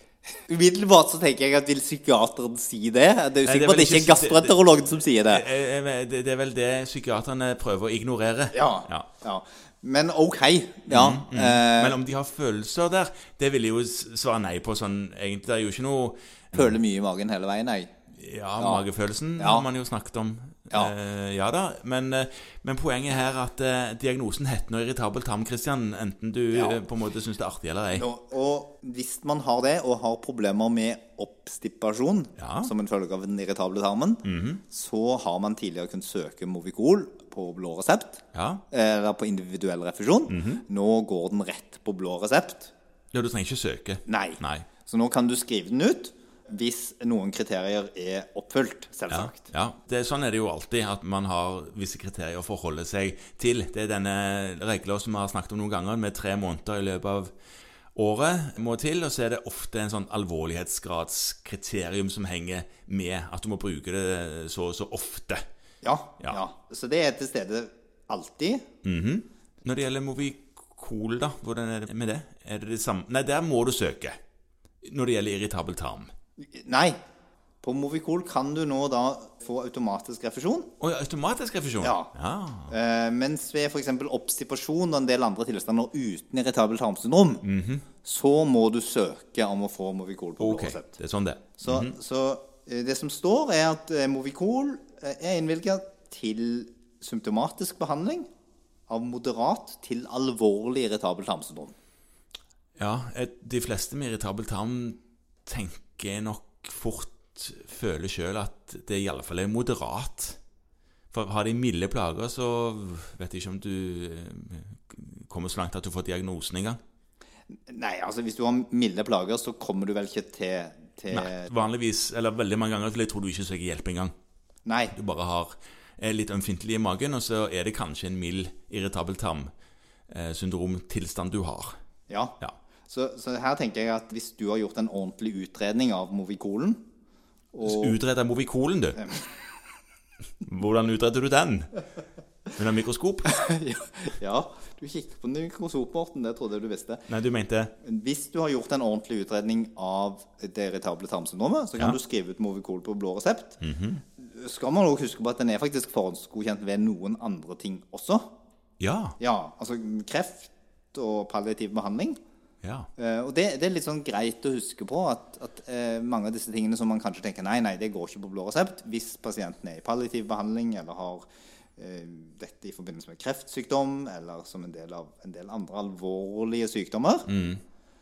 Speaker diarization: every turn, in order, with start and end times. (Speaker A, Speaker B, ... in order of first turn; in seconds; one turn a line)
Speaker A: 0.4-5.4
Speaker B: 3.5-4.6
Speaker B: 5.3-9.1
Speaker A: 8.5-12.0
Speaker B: 10.9-16.8
Speaker A: 16.5-17.9
Speaker B: 18.1-28.1
Speaker A: 18.6-18.8
Speaker A: 19.4-19.7
Speaker A: 26.5-26.8
Speaker A: 27.9-42.7
Speaker B: 32.4-32.7
Speaker B: 34.2-34.6
Speaker B: 38.3-38.6
Speaker B: 40.3-40.6
Speaker B: 43.1-44.6
Speaker A: 44.0-49.4
Speaker B: 49.1-57.3
Speaker B: 57.9-65.4
Speaker A: 65.8-68.6
Speaker B: 68.8-74.2
Speaker B: 74.8-76.1
Speaker A: 76.4-77.0
Speaker A: 77.6-80.7
Speaker B: 80.8-82.7
Speaker A: 81.8-82.1
Speaker A: 82.7-87.4
Speaker B: 87.4-87.8
Speaker A: 88.0-91.0
Speaker B: 90.4-91.9
Speaker A: 91.6-98.3
Speaker A: 98.9-101.7
Speaker B: 102.8-110.4
Speaker B: 111.1-116.8
Speaker A: 117.7-121.6
Speaker B: 121.1-124.1
Speaker A: 124.7-124.9
Speaker B: 124.9-129.5
Speaker B: 130.1-131.7
Speaker A: 132.1-136.8
Speaker A: 137.5-138.0
Speaker B: 137.6-139.0
Speaker A: 139.0-139.3
Speaker B: 140.4-141.8
Speaker B: 142.6-143.3
Speaker A: 143.3-147.1
Speaker B: 147.1-147.7
Speaker A: 147.8-153.6
Speaker B: 153.6-154.0
Speaker A: 154.2-158.3
Speaker B: 158.8-159.2
Speaker A: 159.2-162.2
Speaker B: 162.6-162.9
Speaker A: 163.0-177.3
Speaker B: 177.3-177.6